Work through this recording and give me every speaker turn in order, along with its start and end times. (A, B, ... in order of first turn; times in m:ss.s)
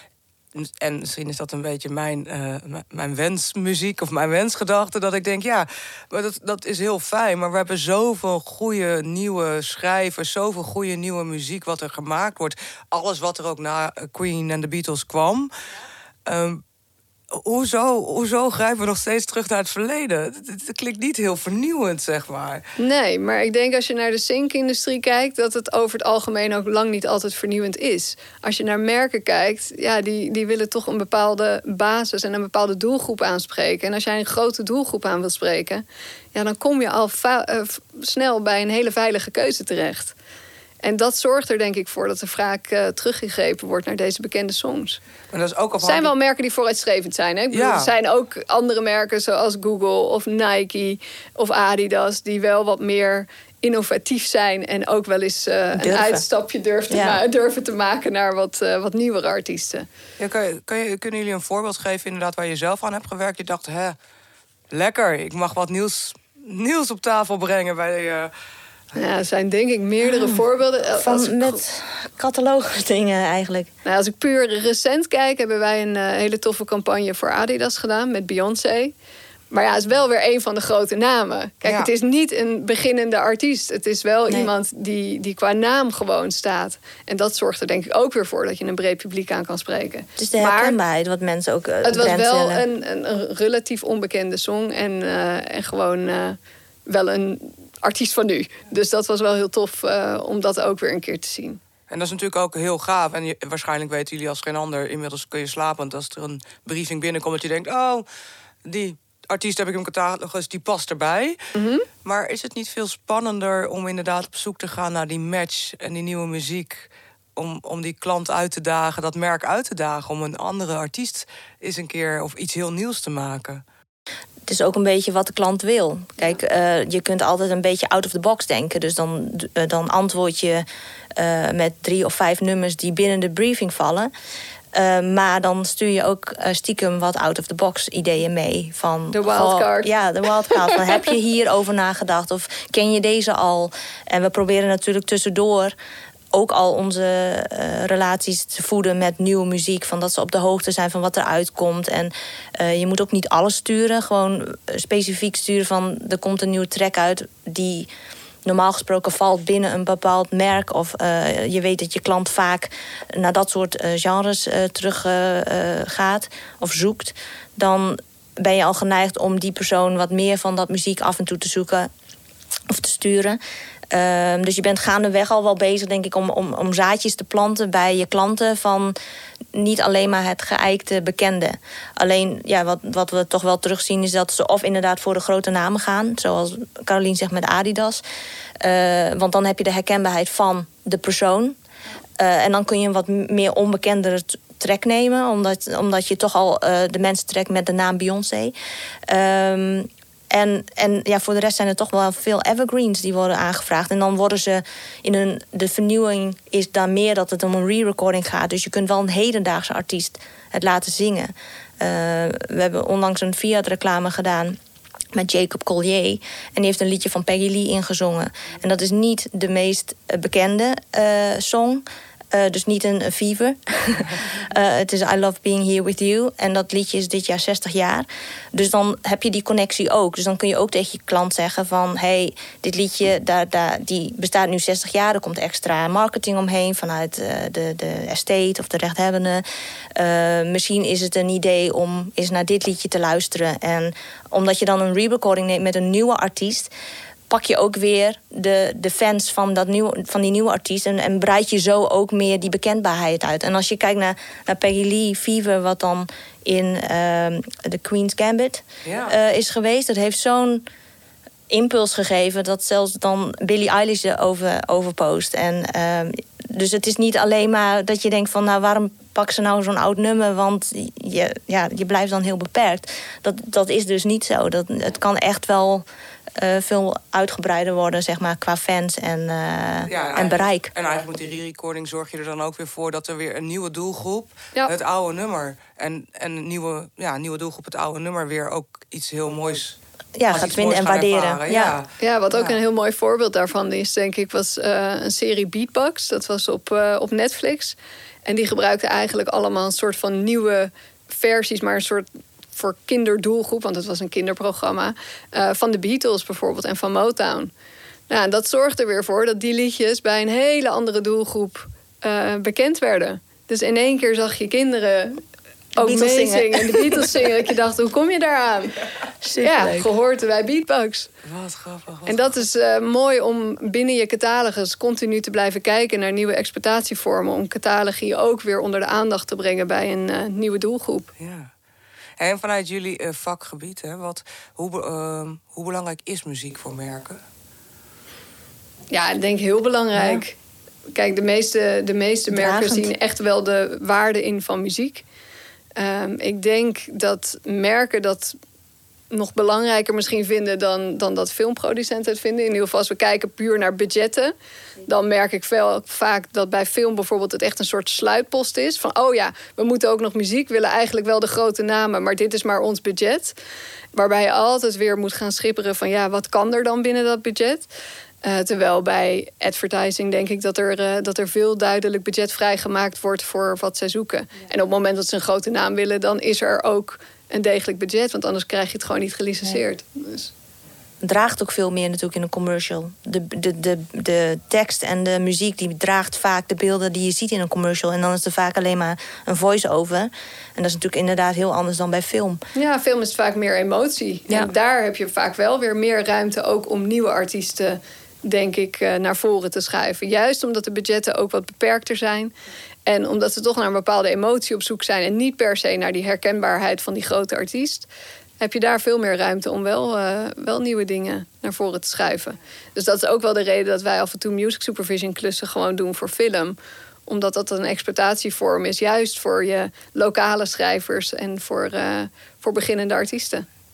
0:00.5-0:15.5 A
0:16.2-0:16.6 A
0:17.3-0:22.6 A
0:22.8-0:40.1 B
0:40.8-0:45.0 B
0:45.3-0:46.1 A
0:45.8-0:59.9 B
0:47.5-0:47.9 A
0:55.8-0:56.2 C
0:56.9-0:57.2 C
1:00.2-1:04.0 A
1:04.7-1:08.3 A
1:08.9-1:11.6 B
1:11.0-1:13.7 C
1:13.8-1:18.9 B
1:19.5-1:30.8 B
1:21.6-1:21.9 A
1:30.2-1:32.6 C
1:31.8-1:41.6 B
1:41.9-1:48.0 A
1:48.6-1:51.5 A
1:51.5-1:51.9 B
1:52.0-2:03.6 A
2:04.5-2:14.1 C
2:14.7-2:25.8 C
2:19.1-2:19.9 B
2:26.3-2:37.9 C
2:38.4-2:51.9 C
2:52.7-2:53.4 C
2:53.9-2:58.9 C
2:59.5-3:08.0 C
3:08.6-3:11.6 C
3:12.2-3:18.5 C
3:19.1-3:34.6 C
3:35.1-3:59.4 C
4:00.0-4:06.7 C
4:07.3-4:20.6 C
4:18.8-4:19.1 A
4:21.5-4:35.9 C
4:36.4-4:40.7 C
4:39.9-4:49.8 A
4:50.2-4:51.8 C
4:50.3-4:52.6 A
4:52.0-5:07.5 B
5:08.1-5:15.2 B
5:15.8-5:18.9 B
5:15.8-5:17.3 C
5:19.2-5:19.9 C
5:19.4-5:21.1 B
5:21.2-5:22.4 A
5:22.0-5:31.1 B
5:31.2-5:31.5 A
5:32.2-5:37.2 A
5:38.9-5:40.4 B
5:39.9-5:40.2 C
5:40.9-5:45.0 B
5:42.3-5:42.9 C
5:45.8-5:48.4 B
5:49.1-5:54.3 B
5:54.9-6:03.4 B
6:03.9-6:07.7 B
6:08.2-6:20.3 B
6:21.0-6:32.4 C
6:32.5-6:42.3 B
6:42.9-6:47.9 B
6:48.4-7:03.5 B